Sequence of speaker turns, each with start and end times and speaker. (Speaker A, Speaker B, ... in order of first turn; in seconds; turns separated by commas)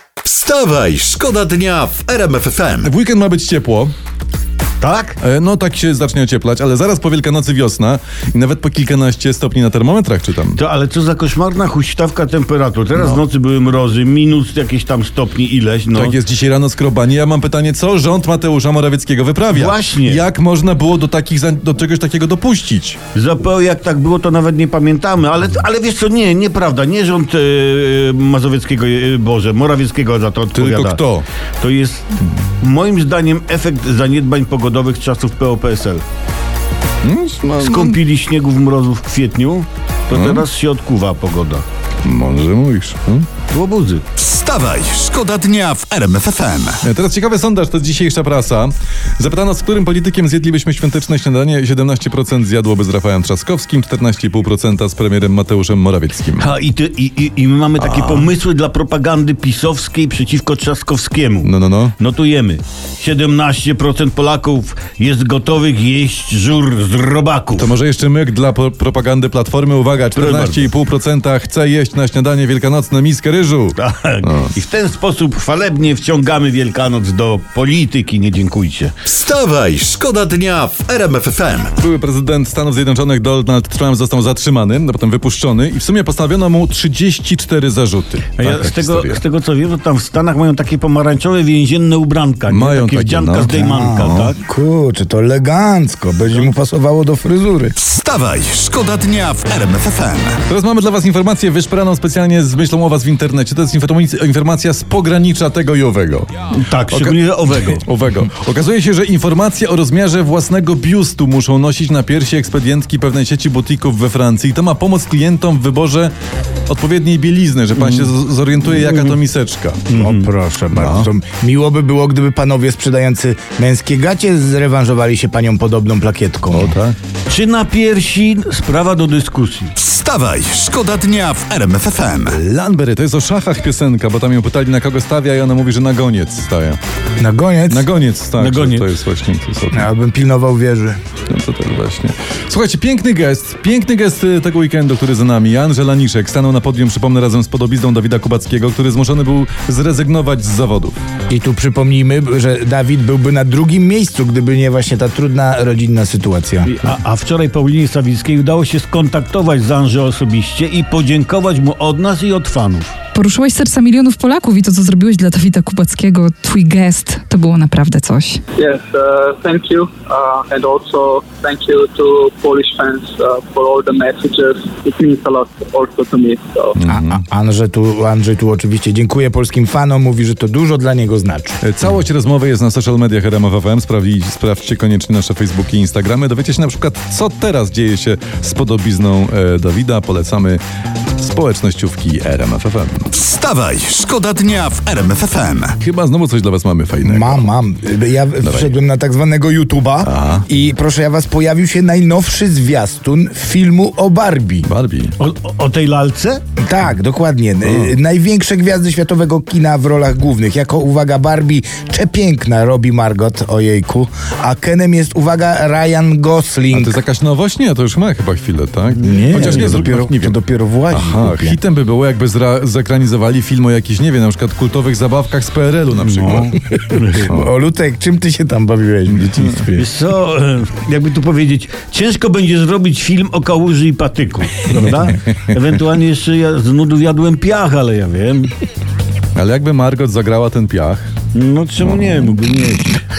Speaker A: 0.2-2.9, Speaker B: 2.8-3.9, Speaker C: 4.8-5.2, Speaker B: 5.2-10.6, Speaker C: 10.6-16.2, Speaker B: 15.9-23.0, Speaker C: 19.5-20.2, Speaker C: 23.1-31.1, Speaker B: 30.5-31.2, Speaker C: 31.6-36.0, Speaker B: 37.0-38.0, Speaker C: 37.6-41.6, Speaker B: 40.1-40.4, Speaker B: 42.0-43.3, Speaker C: 43.5-44.0, Speaker A: 44.2-46.8, Speaker B: 46.8-56.5, Speaker C: 56.4-67.7, Speaker B: 57.8-58.3, Speaker B: 61.4-62.0, Speaker B: 67.6-74.5, Speaker C: 70.2-70.7, Speaker C: 73.8-79.0, Speaker A: 79.0-81.7, Speaker B: 81.8-89.2, Speaker C: 88.4-94.4, Speaker B: 92.5-94.3, Speaker D: 93.5-97.8, Speaker A: 97.8-100.4, Speaker B: 100.5-106.3, Speaker C: 106.5-107.8, Speaker B: 106.9-116.1, Speaker B: 116.7-119.9, Speaker C: 117.8-118.1, Speaker C: 118.8-119.2, Speaker C: 119.9-120.3, Speaker D: 119.9-126.8, Speaker B: 120.7-121.1, Speaker B: 126.5-127.0, Speaker C: 127.3-129.7, Speaker A: 129.8-132.4, Speaker B: 132.3-136.8, Speaker D: 137.2-137.9, Speaker B: 137.7-139.9, Speaker C: 138.4-138.9, Speaker D: 139.7-141.0, Speaker B: 141.3-150.9, Speaker D: 151.3-156.7, Speaker C: 156.7-162.9, Speaker E: 163.2-168.4, Speaker F: 168.6-176.8, Speaker B: 176.8-177.2, Speaker D: 176.9-181.6, Speaker B: 181.6-190.6, Speaker B: 191.2-193.1, Speaker A: 193.1-195.8, Speaker B: 195.8-197.5, Speaker D: 197.0-204.7, Speaker B: 198.4-198.7, Speaker B: 200.1-200.4, Speaker B: 204.6-205.2, Speaker C: 205.2-206.4, Speaker D: 206.6-217.0, Speaker B: 207.7-207.9, Speaker B: 216.7-220.4, Speaker D: 219.0-221.6, Speaker C: 219.2-219.8, Speaker B: 220.9-226.6, Speaker C: 225.9-227.3, Speaker D: 226.8-229.9, Speaker B: 227.2-227.5, Speaker B: 229.1-229.6, Speaker C: 229.8-238.5, Speaker B: 239.3-241.1, Speaker C: 241.3-243.0, Speaker B: 241.8-242.1